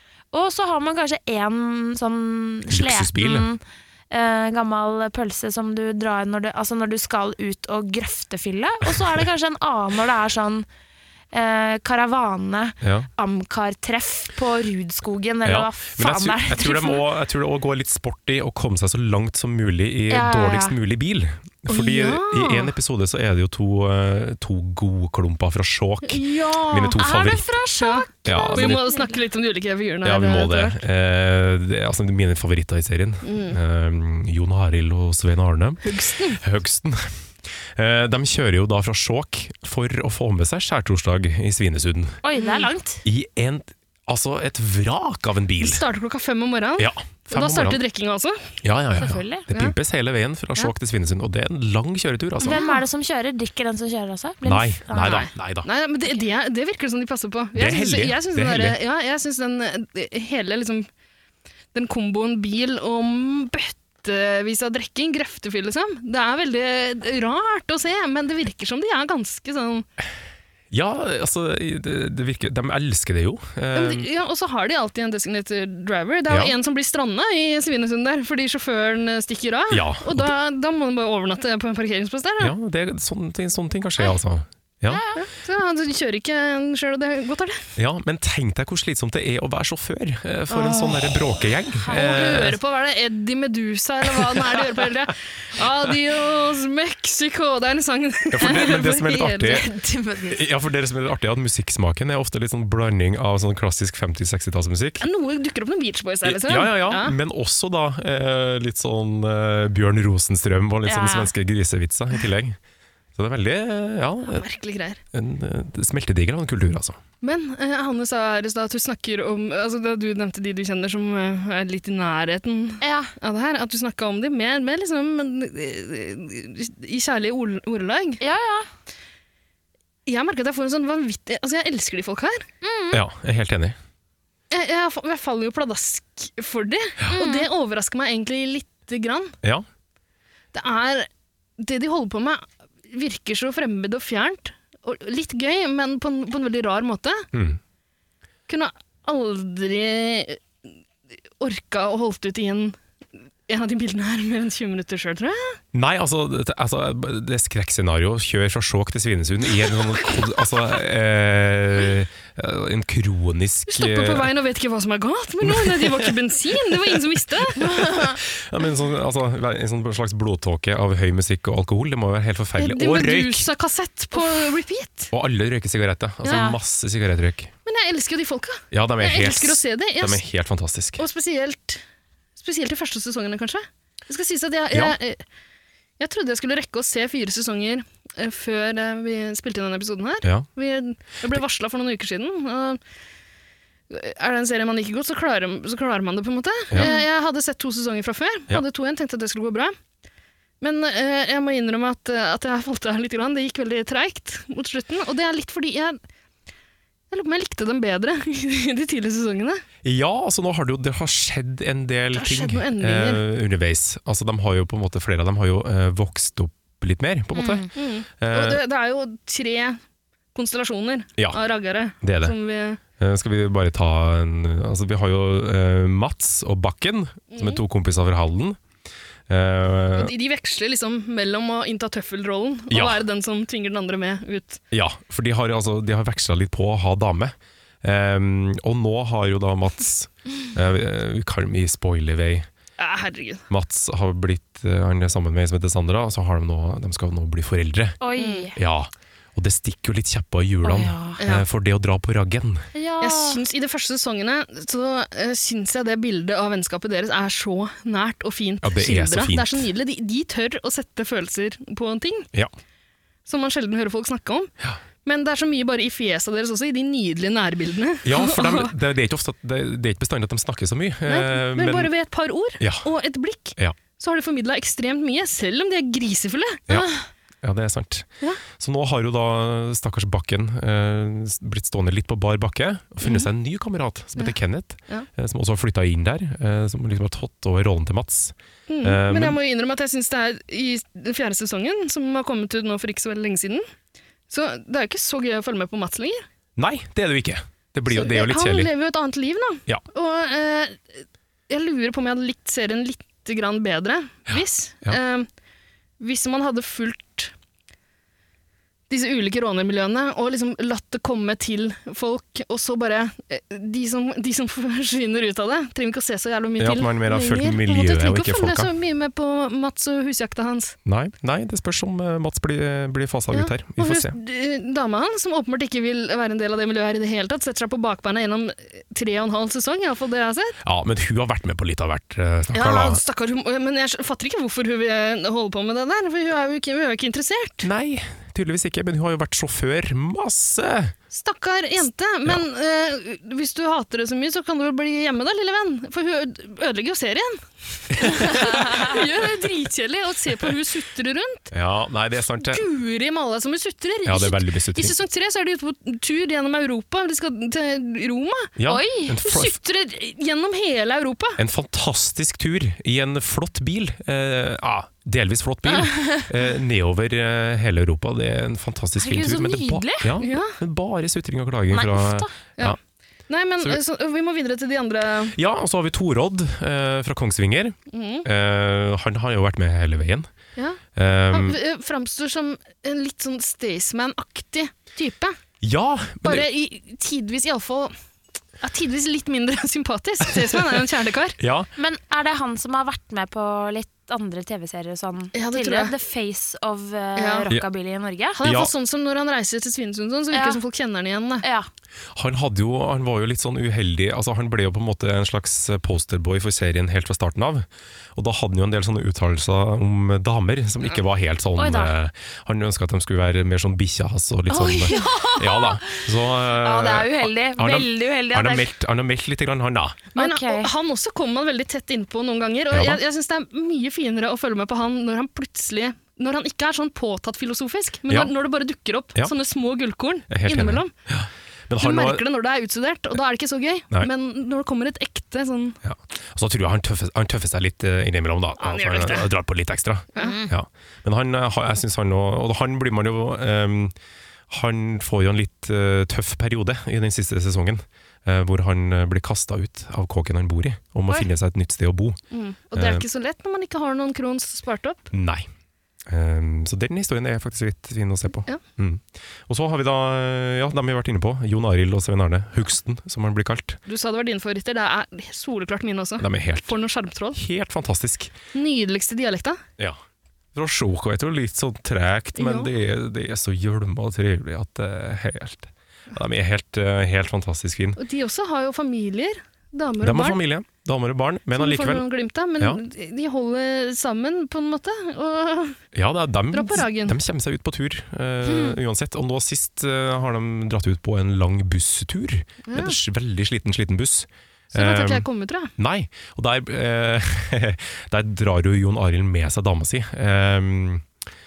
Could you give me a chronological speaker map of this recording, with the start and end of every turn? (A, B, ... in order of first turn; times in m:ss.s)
0:00.3-0:10.7 A
0:02.7-0:03.5 B
0:11.3-0:17.0 A
0:12.8-0:13.1 B
0:15.4-0:27.5 B
0:20.1-0:20.8 A
0:21.7-0:22.7 C
0:26.0-0:27.0 C
0:27.0-0:29.2 A
0:27.8-0:30.8 C
0:28.2-0:28.8 B
0:30.0-0:37.1 B
0:33.2-0:33.6 C
0:35.8-0:36.4 C
0:37.6-0:42.2 B
0:42.2-0:43.0 A
0:42.4-0:42.7 C
0:43.0-0:45.8 B
0:45.6-0:48.6 C
0:46.8-0:47.8 B
0:48.6-0:52.6 B
0:49.0-0:49.5 A
0:52.4-0:52.8 C
0:52.4-0:55.3 A
0:54.4-0:55.7 B
0:55.0-1:00.9 C
0:57.6-0:58.8 B
1:01.7-1:09.9 C
1:10.7-1:14.1 B
1:13.7-1:22.5 C
1:16.3-1:16.5 B
1:19.7-1:20.3 B
1:22.4-1:25.0 B
1:24.9-1:25.2 A
1:25.1-1:27.7 C
1:27.8-1:32.6 B
1:30.5-1:31.2 C
1:31.9-1:39.6 C
1:31.9-1:32.2 A
1:34.2-1:34.6 B
1:38.3-1:39.7 B
1:39.5-1:40.4 A
1:40.3-1:45.0 B
1:45.0-1:47.2 C
1:46.2-1:52.6 B
1:50.9-1:51.3 A
1:53.2-1:54.4 B
1:54.3-1:55.0 C
1:55.1-1:57.0 B
1:57.2-2:08.2 C
2:02.8-2:03.1 A
2:08.2-2:08.7 A
2:10.1-2:12.5 C
2:12.6-2:13.0 A
2:12.9-2:13.8 B
2:14.5-2:19.4 C
2:17.1-2:17.5 A
2:20.5-2:27.3 C
2:27.3-2:27.6 B
2:28.5-2:30.5 C
2:31.4-2:32.8 C
2:33.5-2:35.6 C
2:35.7-2:44.3 B
2:43.7-2:47.6 C
2:45.4-2:46.2 B
2:47.6-2:53.5 B
2:47.7-2:48.2 A
2:52.6-2:55.1 C
2:55.1-2:57.5 B
2:56.2-2:56.5 C
2:56.3-2:56.6 A
2:57.6-3:00.2 C
2:58.7-3:01.0 B
3:01.0-3:01.8 C
3:02.4-3:05.2 C
3:06.0-3:12.8 C
3:13.9-3:19.8 C
3:20.6-3:26.0 C
3:27.1-3:29.6 C
3:29.8-3:38.6 B
3:32.1-3:33.2 C
3:37.3-3:37.7 A
3:37.7-3:39.8 C
3:40.3-3:42.8 C
3:42.0-3:42.4 B
3:43.0-3:48.6 B
3:47.3-3:47.6 C
3:49.3-3:50.1 B
3:49.9-3:54.6 C
3:52.7-3:53.0 B
3:54.7-4:02.5 B
4:02.8-4:03.4 C
4:03.5-4:08.0 B
4:08.0-4:08.6 A
4:08.2-4:08.5 C
4:08.5-4:12.7 B
4:10.6-4:11.2 A
4:11.2-4:11.4 C
4:12.7-4:13.4 A
4:13.0-4:22.3 C
4:18.6-4:19.7 B
4:23.3-4:24.5 C
4:25.0-4:28.7 C
4:28.0-4:31.9 B
4:31.1-4:36.7 C
4:32.6-4:32.9 B
4:37.4-4:49.4 B
4:43.0-4:43.3 C
4:48.7-4:53.7 C
4:54.3-4:56.3 C
4:56.6-4:58.7 B
4:57.9-5:05.3 C
5:04.3-5:05.0 B
5:06.0-5:07.3 C
5:08.9-5:20.8 C
5:16.6-5:18.7 B
5:20.8-5:24.2 B
5:23.3-5:30.6 C
5:30.6-5:33.0 B
5:32.5-5:37.7 C
5:37.6-5:41.0 B
5:41.1-5:51.5 C
5:48.0-5:48.8 B
5:51.5-5:52.6 B
5:52.4-5:58.5 C
5:54.0-5:55.0 B
5:58.6-5:59.6 B
5:58.7-5:59.2 A
5:59.2-6:01.4 C
6:01.4-6:12.8 B
6:05.7-6:06.3 A
6:09.0-6:10.2 A
6:10.2-6:10.6 C
6:11.7-6:12.3 A
6:13.3-6:15.4 C
6:15.3-6:20.3 B
6:17.9-6:18.3 C
6:20.6-6:25.4 C
6:20.9-6:21.6 B
6:25.6-6:26.5 B
6:26.2-6:28.0 C
6:28.6-6:31.4 C
6:31.4-6:31.7 B
6:31.8-6:38.4 A
6:35.3-6:35.9 C
6:37.2-6:37.5 C
6:38.4-6:41.4 C
6:38.4-6:38.7 B
6:40.3-6:40.6 A
6:41.4-6:41.7 A
6:42.2-7:00.1 B
6:51.6-6:51.9 A
6:54.5-6:58.7 A
7:00.1-7:00.7 A
7:00.2-7:10.9 C
7:02.7-7:03.0 B
7:10.3-7:12.2 B
7:11.8-7:15.8 C
7:15.8-7:24.0 B
7:18.6-7:19.3 C
7:20.2-7:20.5 A
7:24.5-7:32.2 B
7:32.3-7:35.1 C
7:32.7-7:33.0 B
7:35.1-7:35.5 B
7:36.1-7:43.8 B
7:43.9-7:47.4 C
7:46.2-7:46.8 B
7:47.4-7:48.3 B
7:48.5-7:49.6 C
7:50.5-7:58.0 B
7:52.4-7:52.7 C
7:58.0-8:00.4 C
8:00.0-8:02.0 B
8:01.5-8:05.8 C
8:05.9-8:21.1 B
8:06.5-8:07.2 C
8:12.6-8:13.0 C
8:14.7-8:15.7 C